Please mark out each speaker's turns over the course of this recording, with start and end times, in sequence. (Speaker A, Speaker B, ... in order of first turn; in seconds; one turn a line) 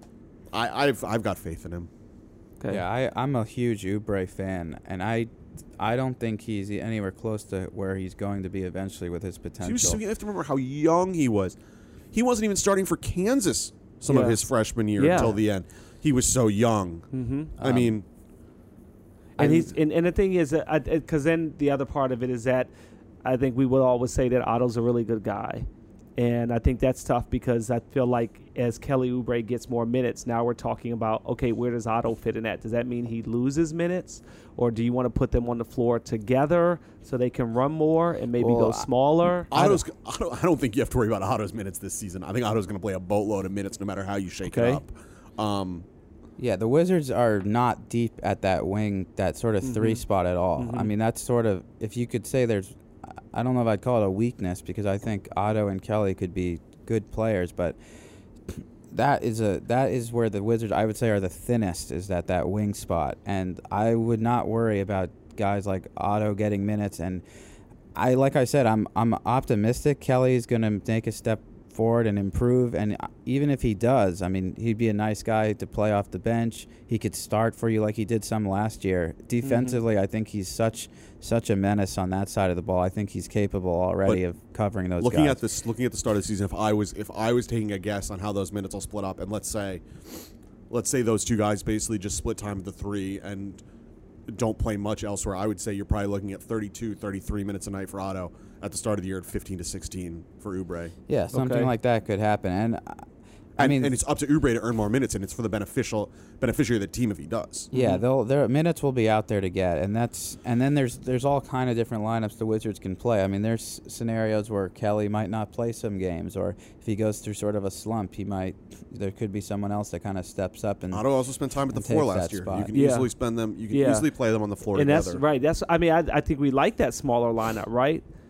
Speaker A: 0.5-1.9
Speaker B: 2.7-10.0
Speaker A: 9.6-11.6
Speaker A: 12.1-18.0
Speaker C: 14.1-14.4
Speaker C: 14.9-15.4
Speaker C: 17.1-17.5
Speaker B: 17.6-17.9
Speaker A: 19.4-19.7
Speaker C: 19.4-22.7
Speaker C: 23.2-39.5
Speaker B: 38.4-38.9
Speaker B: 39.5-39.8
Speaker A: 39.5-45.9
Speaker C: 44.5-44.8
Speaker B: 46.4-57.8
Speaker C: 49.6-50.0
Speaker C: 50.5-50.9
Speaker B: 58.5-67.2
Speaker B: 67.9-85.4
Speaker C: 79.4-79.8
Speaker A: 85.0-93.6
Speaker A: 94.3-100.9
Speaker B: 101.1-103.0
Speaker C: 101.3-101.7
Speaker B: 103.6-103.9
Speaker A: 103.6-107.7
Speaker C: 107.7-108.0
Speaker B: 107.7-121.0
Speaker A: 120.9-125.2
Speaker B: 121.7-122.7
Speaker C: 122.7-123.1
Speaker C: 123.7-124.1
Speaker C: 124.7-128.0